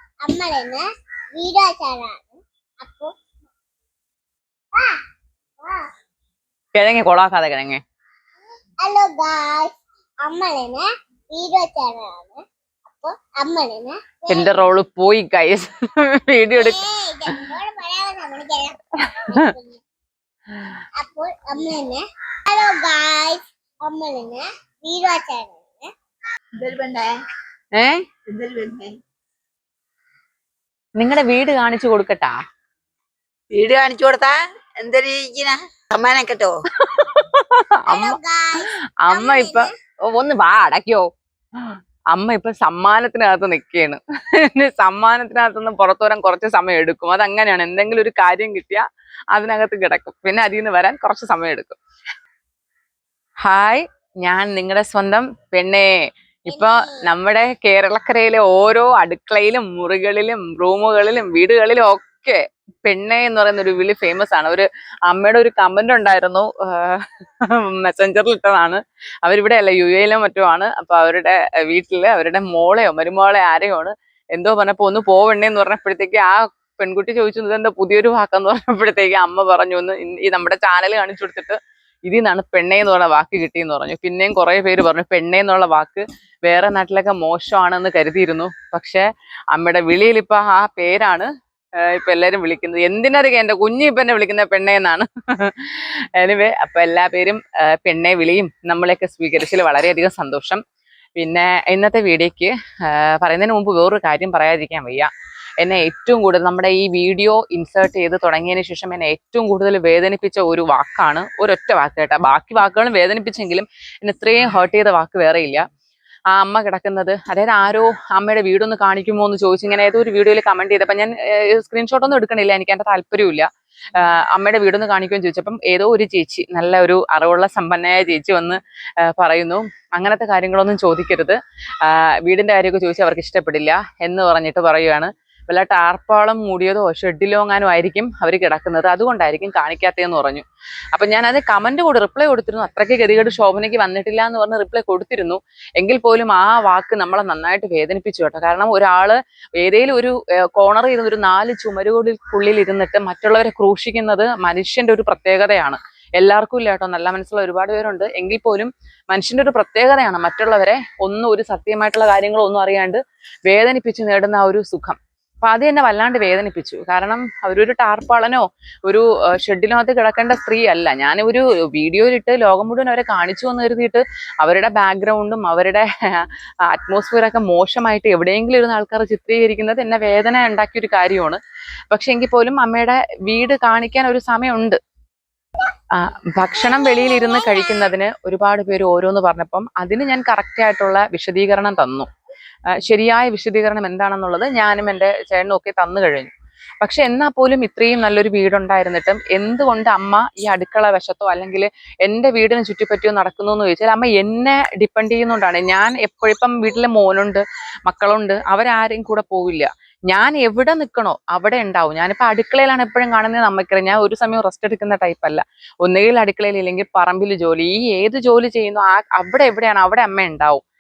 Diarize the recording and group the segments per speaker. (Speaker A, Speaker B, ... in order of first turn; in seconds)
Speaker A: 0.2-0.8, 1.3-3.1, 4.8-5.0, 5.6-5.9, 8.8-14.6, 16.6-18.8, 19.3-19.8, 21.0-25.9, 37.9-39.7, 56.5-57.0, 186.5-187.9
Speaker B: 6.7-7.8, 14.3-16.8, 19.0-19.5, 27.7-28.1, 31.0-32.4, 36.8-38.2, 39.0-41.1, 41.7-51.8, 53.4-55.9, 56.5-100.6, 101.2-115.6, 116.3-181.4, 181.9-184.8, 185.9-192.1, 192.8-220.6
Speaker C: 26.6-27.1, 28.3-29.0, 33.5-36.6